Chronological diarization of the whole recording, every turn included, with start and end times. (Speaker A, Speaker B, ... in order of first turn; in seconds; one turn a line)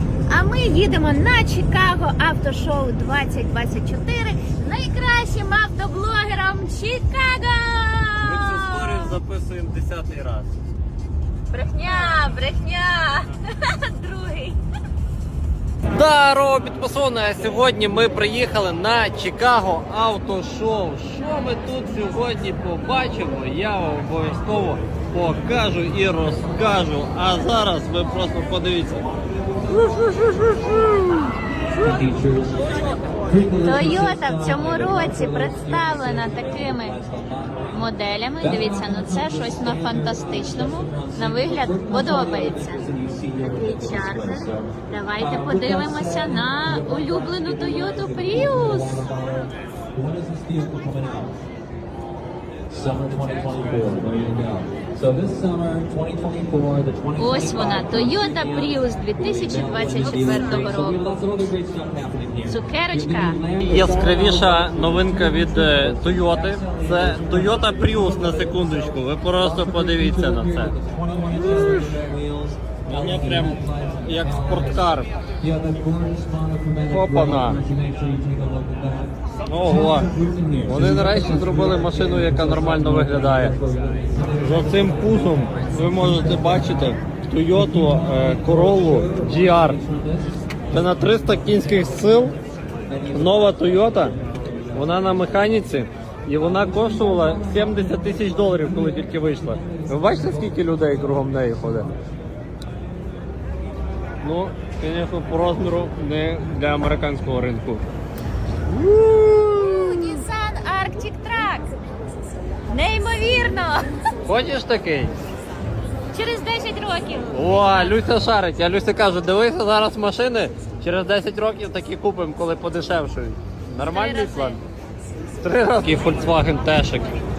Speaker A: 0.3-9.2
Speaker B: 8.2-10.5
Speaker A: 11.5-14.6
Speaker B: 15.9-29.0
Speaker B: 29.9-31.2
Speaker C: 31.8-37.7
Speaker A: 33.6-37.0
Speaker A: 37.7-42.9
Speaker C: 38.4-51.3
Speaker A: 43.4-49.1
Speaker C: 52.7-58.7
Speaker A: 57.2-61.0
Speaker C: 59.3-64.8
Speaker A: 62.5-63.4
Speaker B: 63.6-70.8
Speaker C: 65.4-67.7
Speaker C: 69.6-74.8
Speaker B: 71.5-71.9
Speaker B: 72.8-75.2
Speaker C: 75.4-79.1
Speaker B: 76.9-77.7
Speaker B: 79.5-80.1
Speaker C: 79.7-85.1
Speaker B: 80.6-83.6
Speaker B: 84.4-89.8
Speaker C: 88.9-90.2
Speaker B: 90.7-92.4
Speaker B: 93.1-94.2
Speaker B: 94.7-101.9
Speaker B: 104.2-107.8
Speaker B: 108.7-110.1
Speaker A: 109.0-111.7
Speaker A: 112.7-113.9
Speaker B: 114.2-115.1
Speaker A: 116.1-118.0
Speaker B: 117.3-124.6
Speaker A: 123.8-124.6
Speaker B: 125.4-127.1